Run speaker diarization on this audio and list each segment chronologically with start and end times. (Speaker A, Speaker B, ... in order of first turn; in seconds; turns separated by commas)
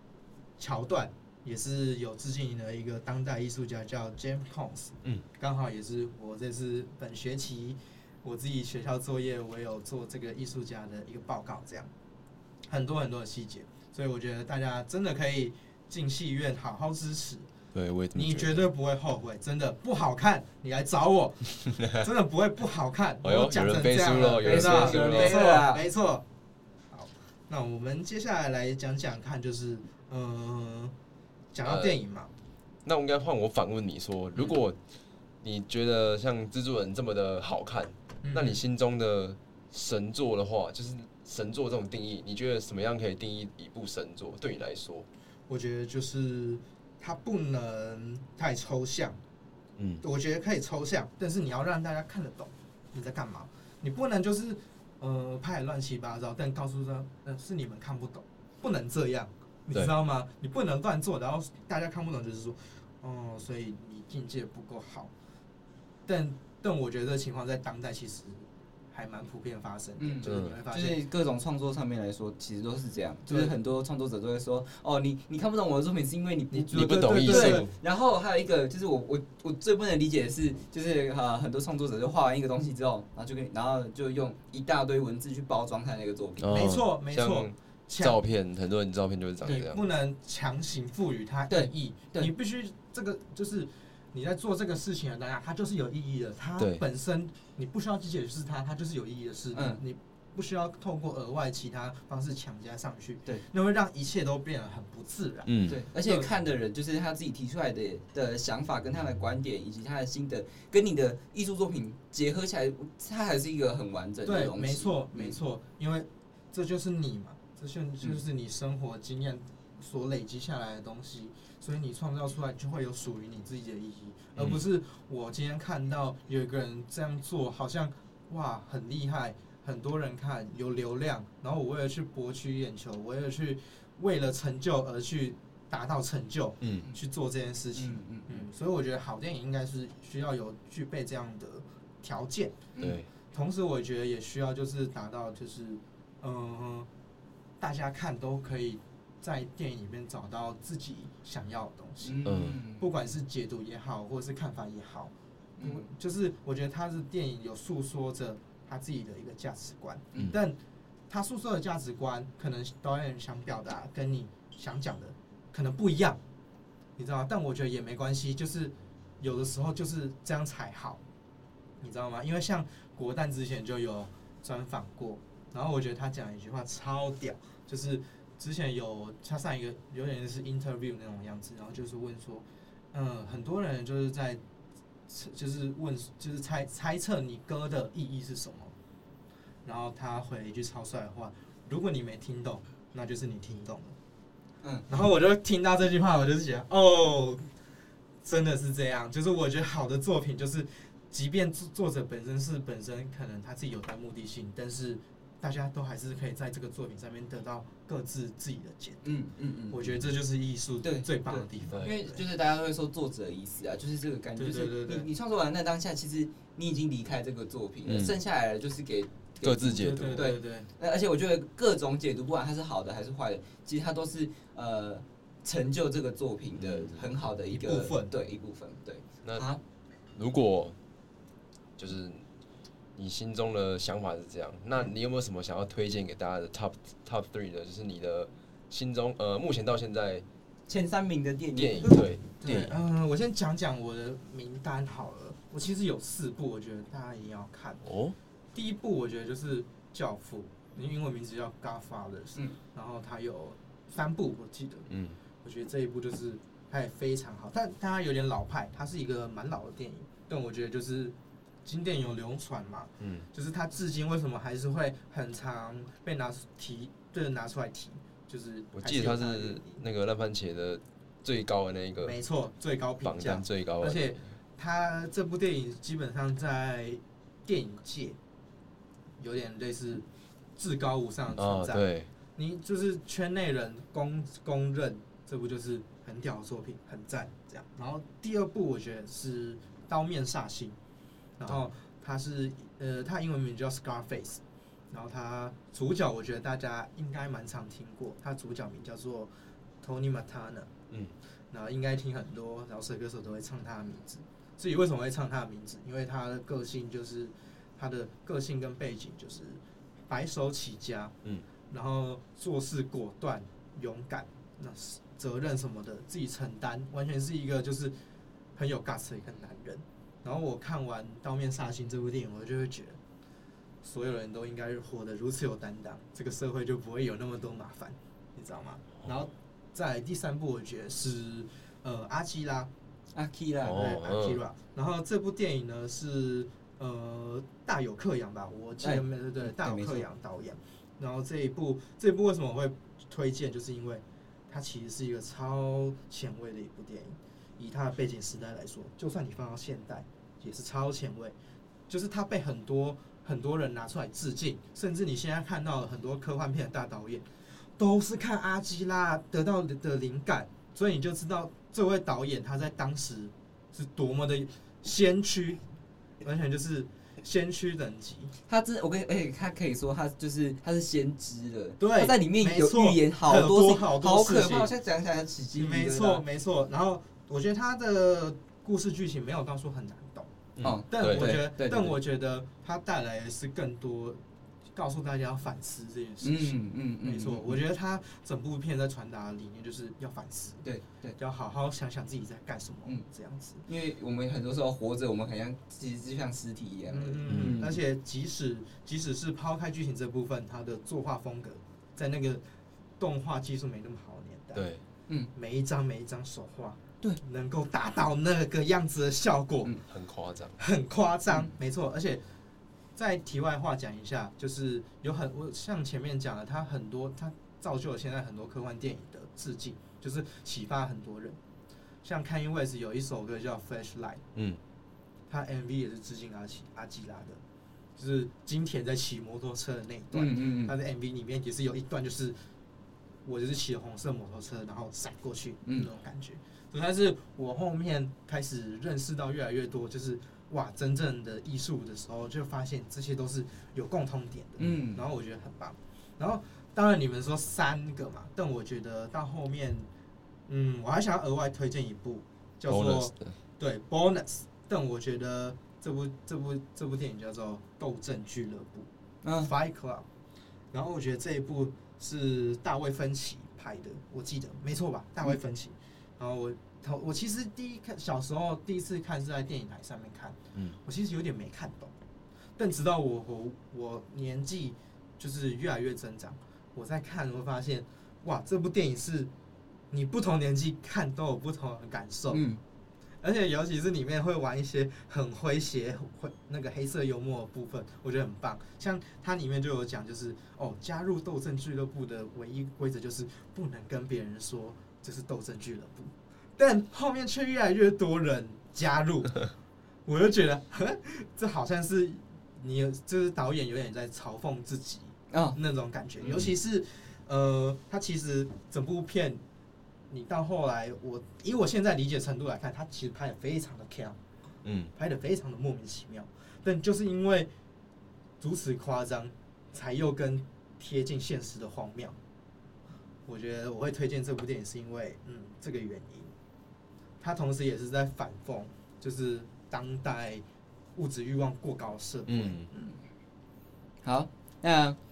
Speaker A: 0.6-11.9, Speaker A: 12.7-17.5, Speaker B: 17.7-18.7, Speaker A: 18.1-26.2, Speaker B: 21.7-22.1, Speaker B: 23.2-25.6, Speaker C: 24.4-25.8, Speaker A: 26.9-30.9, Speaker A: 31.5-32.3, Speaker B: 31.6-32.0, Speaker B: 32.8-34.8, Speaker B: 35.4-45.1, Speaker A: 38.2-38.6, Speaker A: 45.5-49.2, Speaker B: 49.8-50.0, Speaker A: 50.0-65.1, Speaker A: 66.0-71.0, Speaker C: 70.0-86.5, Speaker B: 70.2-70.6, Speaker A: 73.2-73.5, Speaker A: 76.5-77.7, Speaker B: 76.7-77.7, Speaker B: 86.4-89.8, Speaker A: 86.5-88.2, Speaker A: 89.7-106.3, Speaker C: 91.5-92.3, Speaker C: 99.5-99.8, Speaker B: 105.5-105.8, Speaker C: 105.7-115.4, Speaker A: 114.2-142.7, Speaker B: 124.3-124.6, Speaker B: 136.6-136.9, Speaker C: 137.7-138.4, Speaker C: 142.7-143.0, Speaker B: 142.8-143.1, Speaker A: 143.3-146.9, Speaker A: 147.6-160.6, Speaker C: 152.0-152.9, Speaker B: 152.2-152.6, Speaker C: 155.6-155.9, Speaker A: 161.1-166.2, Speaker A: 167.0-171.0, Speaker A: 171.8-184.4, Speaker A: 185.1-188.7, Speaker A: 189.6-193.9, Speaker A: 194.9-197.5, Speaker A: 198.2-209.2, Speaker C: 209.0-209.8, Speaker A: 209.7-212.2, Speaker C: 210.8-229.6, Speaker B: 211.7-211.9, Speaker A: 214.4-215.1, Speaker B: 217.8-218.1, Speaker B: 219.4-220.3, Speaker A: 219.7-220.7, Speaker B: 226.6-227.0, Speaker A: 227.5-228.1, Speaker B: 230.1-230.7, Speaker B: 231.8-232.2, Speaker B: 232.9-240.2, Speaker C: 240.7-242.8, Speaker B: 241.5-242.7, Speaker A: 241.8-247.8, Speaker B: 247.8-248.2, Speaker A: 248.5-254.9, Speaker B: 254.9-255.2, Speaker A: 255.4-269.8, Speaker B: 263.0-263.3, Speaker B: 268.8-272.2, Speaker A: 272.0-278.2, Speaker B: 273.0-274.2, Speaker A: 279.2-280.0, Speaker A: 280.6-281.8, Speaker B: 281.3-282.1, Speaker A: 282.4-290.8, Speaker A: 291.4-299.3, Speaker A: 299.8-300.7, Speaker A: 301.5-311.1, Speaker A: 311.7-317.9, Speaker A: 318.5-323.0, Speaker A: 323.8-332.7, Speaker C: 333.1-333.8, Speaker B: 333.6-334.4, Speaker A: 333.7-351.3, Speaker C: 338.8-340.1, Speaker A: 351.9-357.2, Speaker A: 357.8-365.6, Speaker A: 366.2-368.3, Speaker C: 368.5-376.2, Speaker A: 371.8-374.7, Speaker A: 375.6-380.3, Speaker B: 380.6-381.3, Speaker C: 380.6-382.0, Speaker A: 380.9-384.2, Speaker A: 384.7-390.6, Speaker C: 386.2-387.6, Speaker C: 390.6-391.2, Speaker A: 391.2-393.6, Speaker C: 393.7-397.8, Speaker A: 396.9-402.4, Speaker B: 397.3-397.6, Speaker A: 403.0-404.7, Speaker B: 404.5-404.8, Speaker A: 405.3-409.8, Speaker B: 409.9-410.6, Speaker A: 410.6-412.2, Speaker A: 412.9-421.4, Speaker A: 422.0-424.2, Speaker A: 425.3-427.4, Speaker A: 428.0-432.4, Speaker C: 430.1-430.7, Speaker A: 433.2-449.9, Speaker C: 444.6-445.0, Speaker A: 450.5-460.1, Speaker B: 452.7-453.3, Speaker C: 459.2-459.5, Speaker A: 460.7-471.9, Speaker A: 472.6-479.3, Speaker A: 479.9-482.4, Speaker C: 482.3-482.6, Speaker A: 483.2-499.5, Speaker A: 500.1-509.4, Speaker C: 505.3-505.6, Speaker B: 506.2-506.5, Speaker A: 510.1-514.2, Speaker B: 514.6-514.9, Speaker A: 515.0-517.5, Speaker A: 518.4-522.1, Speaker A: 523.3-526.3, Speaker A: 527.2-530.4, Speaker A: 531.0-532.9, Speaker B: 532.3-532.7, Speaker C: 534.0-535.0